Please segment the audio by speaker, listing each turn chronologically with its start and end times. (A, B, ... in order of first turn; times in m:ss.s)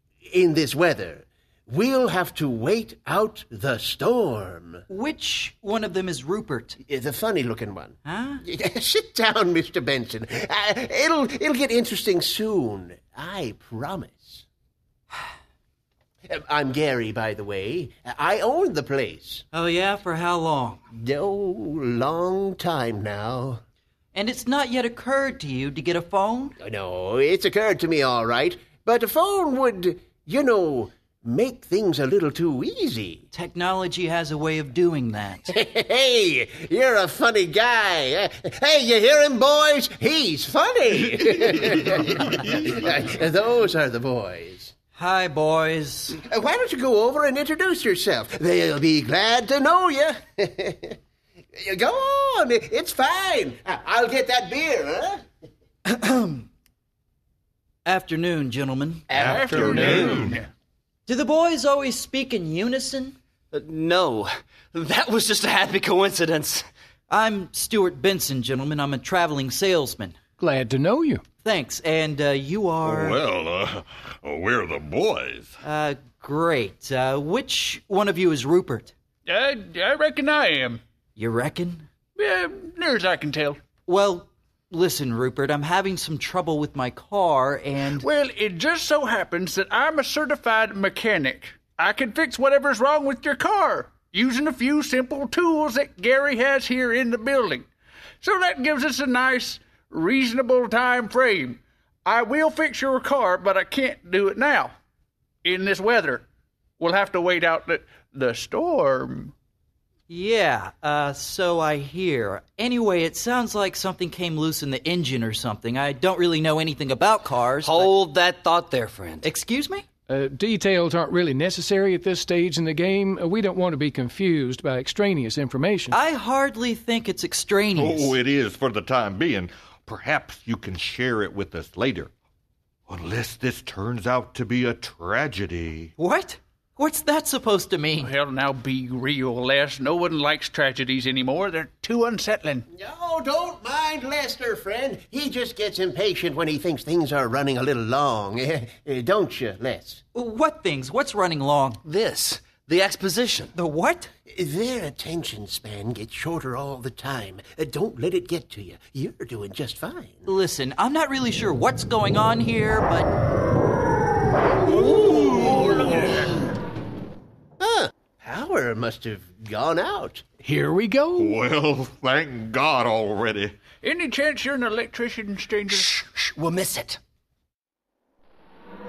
0:00.3-0:04.8 A
0:04.9-0:06.8 B
0:06.8-0:14.4 A
0:08.0-0:08.4 B
0:16.3-0:19.4 A
0:19.5-0:20.8 B
0:20.9-0:23.6 A
0:24.1-0:26.6 B
0:26.6-0:33.3 A
0:33.3-0:35.5 B
0:35.5-0:44.7 A
0:45.0-0:46.2 B
0:46.2-0:51.0 A
0:51.6-0:55.2 A
0:55.9-0:56.5 B
0:57.8-0:59.0 B
0:59.1-1:00.2 A
0:59.1-1:00.4 C
0:59.1-1:00.5 D
1:01.1-1:03.2 B
1:03.5-1:06.6 E
1:07.1-1:10.2 B
1:10.4-1:11.2 F
1:11.4-1:13.2 B
1:12.8-1:15.6 C
1:15.6-1:18.9 B
1:19.3-1:20.8 D
1:21.2-1:21.9 B
1:22.2-1:23.6 D
1:23.9-1:28.1 B
1:28.0-1:37.7 D
1:38.2-1:44.7 D
1:45.4-1:46.3 D
1:46.8-1:49.3 D
1:50.1-1:57.9 B
1:57.6-1:59.3 E
1:59.2-1:59.8 B
2:00.1-2:06.0 F
2:05.9-2:08.2 B
2:07.8-2:12.1 C
2:12.9-2:15.9 C
2:16.0-2:18.1 B
2:18.0-2:22.6 D
2:22.7-2:30.0 A
2:30.1-2:31.8 B
2:31.8-2:33.5 E
2:33.6-2:34.1 B
2:34.3-2:40.3 A
2:40.3-2:43.1 B
2:45.3-2:45.8 A
2:47.6-2:50.3 A
2:50.4-2:51.4 F
2:51.2-2:53.6 C
2:53.8-2:55.9 D
2:55.9-2:57.0 E